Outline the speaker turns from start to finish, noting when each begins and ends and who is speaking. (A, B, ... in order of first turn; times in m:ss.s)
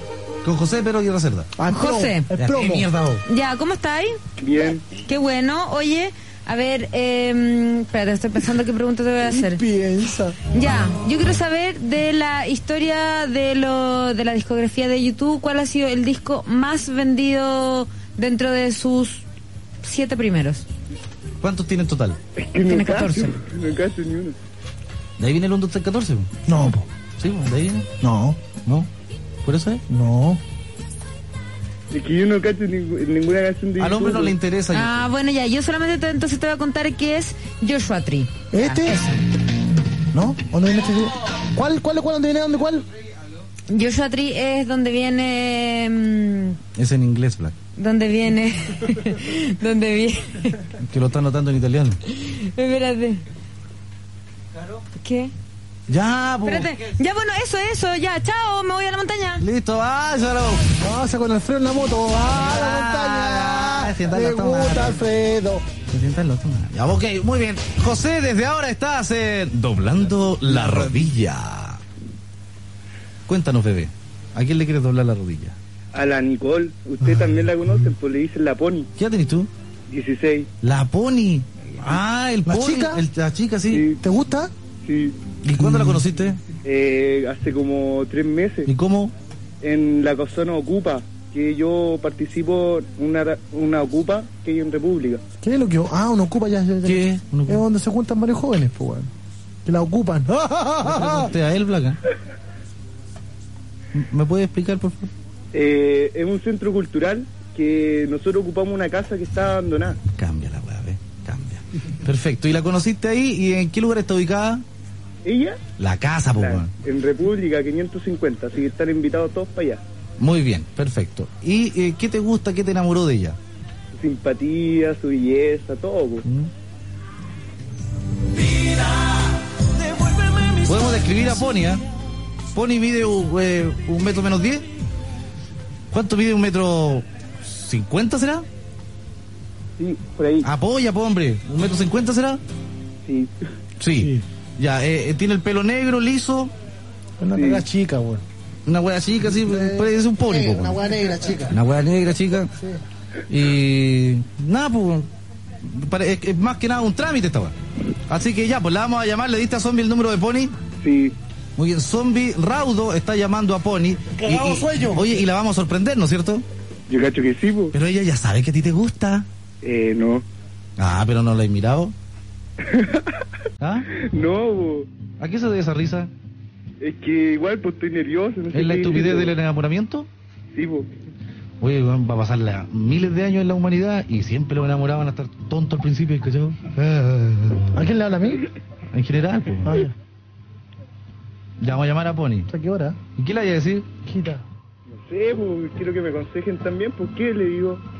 0:00.4-0:01.5 A
0:01.6-0:02.9 B
0:01.7-0:02.3 C
0:02.4-0:03.2 A
0:03.2-0:04.2 C
0:04.4-0:04.8 D
0:05.0-0:09.6 C
0:09.2-0:10.4 B
0:10.5-0:19.2 C
0:19.8-0:20.6 C
0:21.4-0:22.2 A
0:22.4-0:24.3 D
0:22.7-0:23.4 C
0:25.2-0:26.3 A
0:26.5-0:26.9 B
0:27.2-0:27.9 A
0:28.0-0:28.4 B
0:29.4-0:29.8 A
0:29.9-0:30.4 B
0:31.9-0:34.4 D
0:33.8-0:35.1 A
0:34.7-0:39.1 C
0:38.5-0:39.1 B
0:40.1-0:42.8 B
0:43.7-0:46.6 C
0:46.7-0:47.6 A
0:47.8-0:50.5 C
0:50.8-0:52.0 A
0:52.1-0:53.2 C
0:55.0-0:55.3 C
0:55.9-0:56.7 A
0:56.4-0:59.4 C
0:59.4-1:00.6 A
1:00.8-1:05.6 B
1:02.3-1:05.0 A
1:05.9-1:11.8 A
1:13.3-1:15.6 A
1:15.9-1:18.9 D
1:19.0-1:19.5 A
1:19.9-1:20.5 D
1:20.6-1:23.9 A
1:22.5-1:23.0 B
1:23.7-1:24.0 D
1:24.0-1:24.5 B
1:24.8-1:25.2 D
1:25.4-1:26.4 A
1:25.6-1:26.0 B
1:26.6-1:28.7 D
1:28.6-1:29.1 A
1:29.6-1:35.2 D
1:35.4-1:39.1 B
1:36.8-1:37.6 A
1:39.6-1:41.3 B
1:40.8-1:42.0 A
1:43.9-1:45.1 A
1:45.5-1:50.0 D
1:50.2-1:54.6 A
1:55.2-1:55.6 D
1:55.8-1:56.7 A
1:56.4-1:59.8 D
2:00.2-2:03.4 A
2:03.9-2:06.2 D
2:06.2-2:06.5 A
2:10.6-2:11.8 A
2:12.5-2:14.6 A
2:15.9-2:18.4 A
2:19.8-2:20.5 D
2:20.4-2:22.4 A
2:23.0-2:23.3 D
2:23.8-2:26.5 A
2:24.0-2:24.2 B
2:27.2-2:28.2 B
2:27.4-2:27.6 D
2:28.7-2:30.8 A
2:29.2-2:31.6 B
2:31.5-2:32.5 A
2:32.5-2:32.8 B
2:33.3-2:35.1 A
2:35.6-2:37.5 A
2:38.1-2:40.5 A
2:40.8-2:41.1 D
2:41.6-2:46.4 A
2:44.2-2:45.1 B
2:46.9-2:47.7 D
2:47.7-2:49.2 A
2:49.6-2:50.2 D
2:50.8-2:51.9 A
2:52.7-2:53.1 D
2:53.6-2:53.9 A
2:53.9-2:54.9 D
2:55.2-2:56.1 A
2:56.8-2:59.3 D
2:58.5-3:00.1 A
3:00.5-3:00.9 D
3:01.6-3:07.8 A
3:07.7-3:08.4 B
3:08.9-3:09.8 A
3:09.6-3:09.9 B
3:11.6-3:12.5 A
3:12.5-3:13.0 B
3:13.2-3:13.9 A
3:14.0-3:14.4 B
3:14.9-3:17.8 D